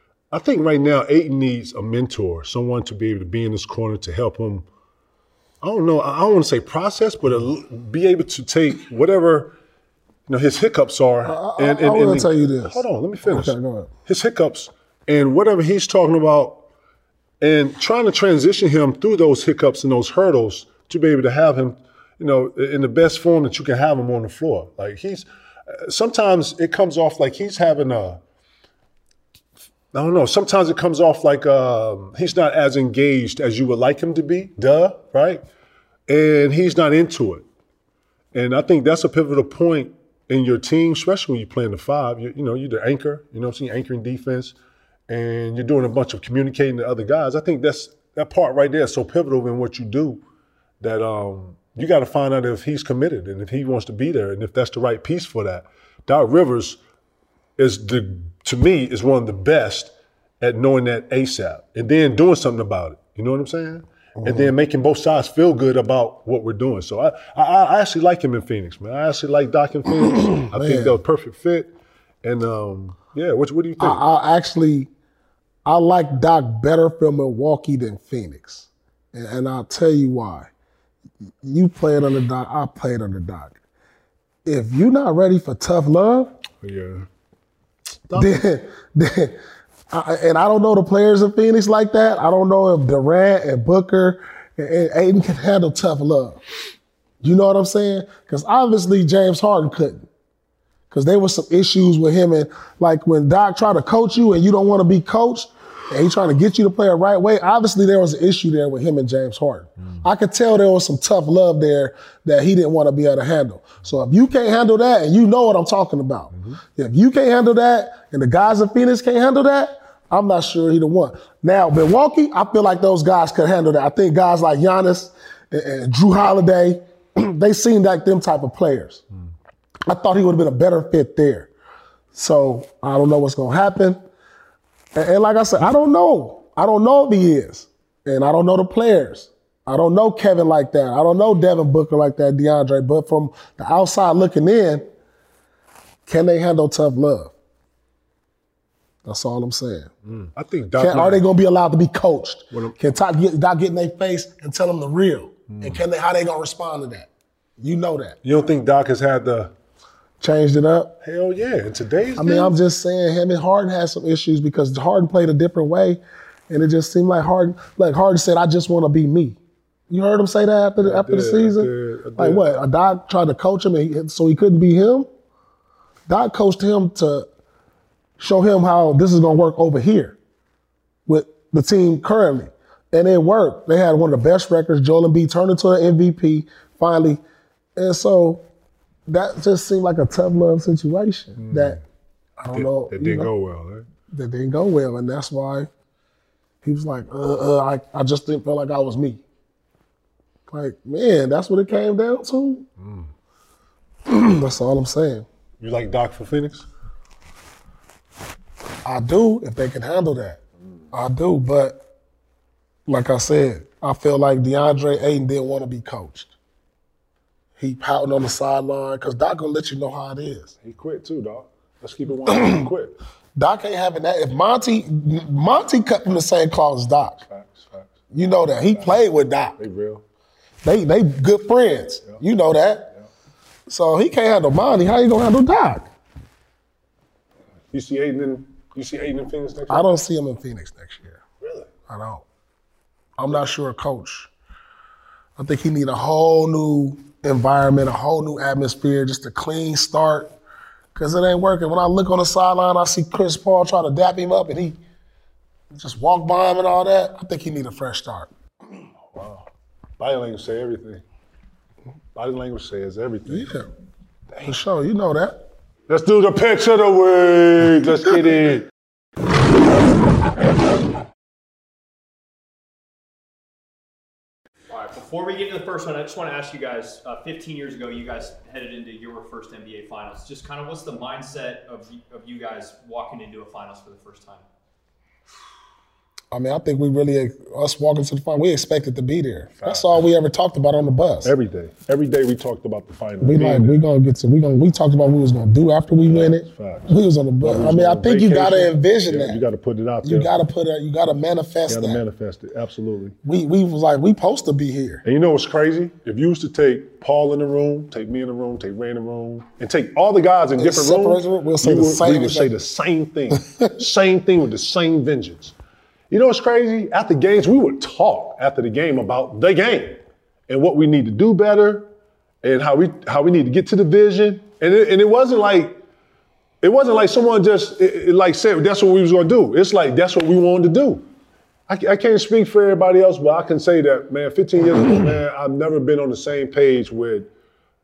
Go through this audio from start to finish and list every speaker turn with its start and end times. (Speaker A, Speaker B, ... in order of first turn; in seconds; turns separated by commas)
Speaker A: 0.3-4.7, Speaker A: 5.6-9.6, Speaker A: 10.3-16.6, Speaker B: 11.2-13.9, Speaker A: 17.4-28.2, Speaker A: 29.9-35.4, Speaker A: 36.1-37.5, Speaker A: 38.3-44.6, Speaker A: 45.1-50.2, Speaker A: 50.8-56.8, Speaker A: 57.6-71.7, Speaker B: 64.2-64.5, Speaker B: 70.4-71.0, Speaker A: 72.2-74.0, Speaker B: 73.8-74.9, Speaker B: 75.7-80.5, Speaker B: 81.4-83.6, Speaker B: 84.5-86.3, Speaker A: 86.6-87.1, Speaker A: 88.1-88.4, Speaker B: 88.2-89.4, Speaker B: 89.9-96.4, Speaker B: 97.2-100.1, Speaker B: 100.9-129.0, Speaker A: 116.3-116.6, Speaker B: 129.9-131.5, Speaker B: 132.1-134.0, Speaker B: 134.9-144.8, Speaker B: 146.1-147.3, Speaker B: 149.0-149.9, Speaker A: 150.1-151.2, Speaker B: 150.8-158.2, Speaker A: 155.5-155.8, Speaker A: 158.2-159.5, Speaker B: 160.2-161.0, Speaker A: 161.0-162.6, Speaker B: 162.2-169.4, Speaker B: 169.9-175.1, Speaker A: 170.8-172.5, Speaker B: 176.1-177.3, Speaker B: 178.2-180.2, Speaker B: 181.1-187.2, Speaker B: 187.8-188.5, Speaker B: 189.1-191.8, Speaker A: 191.4-191.8, Speaker B: 192.4-193.3, Speaker A: 192.5-193.9, Speaker B: 194.1-195.7, Speaker B: 196.6-199.2, Speaker B: 200.5-202.7, Speaker A: 202.8-203.1, Speaker B: 204.1-205.3, Speaker A: 205.6-206.7, Speaker B: 208.8-210.4, Speaker B: 210.9-211.8, Speaker B: 212.9-216.3, Speaker B: 217.6-220.5, Speaker A: 220.6-222.9, Speaker B: 222.3-222.7, Speaker B: 223.4-227.2, Speaker A: 227.2-228.0, Speaker B: 228.1-229.6, Speaker A: 229.6-230.0, Speaker B: 230.6-232.9, Speaker B: 233.7-235.9, Speaker A: 237.7-239.9, Speaker B: 239.7-241.2, Speaker A: 241.4-241.7, Speaker B: 241.9-242.2, Speaker B: 243.2-244.3, Speaker B: 245.4-250.3, Speaker B: 250.9-254.8, Speaker B: 255.7-258.3, Speaker A: 259.1-259.5, Speaker A: 260.0-261.0, Speaker A: 262.1-263.5, Speaker B: 263.3-263.7, Speaker A: 264.3-264.6, Speaker B: 264.4-265.4, Speaker A: 265.9-268.7, Speaker C: 274.7-284.5, Speaker B: 286.3-291.3, Speaker A: 289.6-290.0, Speaker A: 291.2-293.8, Speaker B: 293.2-299.4, Speaker A: 296.1-300.3, Speaker B: 300.0-302.0, Speaker A: 301.7-303.2, Speaker B: 303.2-305.0, Speaker A: 305.1-315.6, Speaker B: 310.6-312.5, Speaker A: 316.1-321.9, Speaker A: 322.4-325.8, Speaker A: 326.6-331.1, Speaker A: 331.7-337.3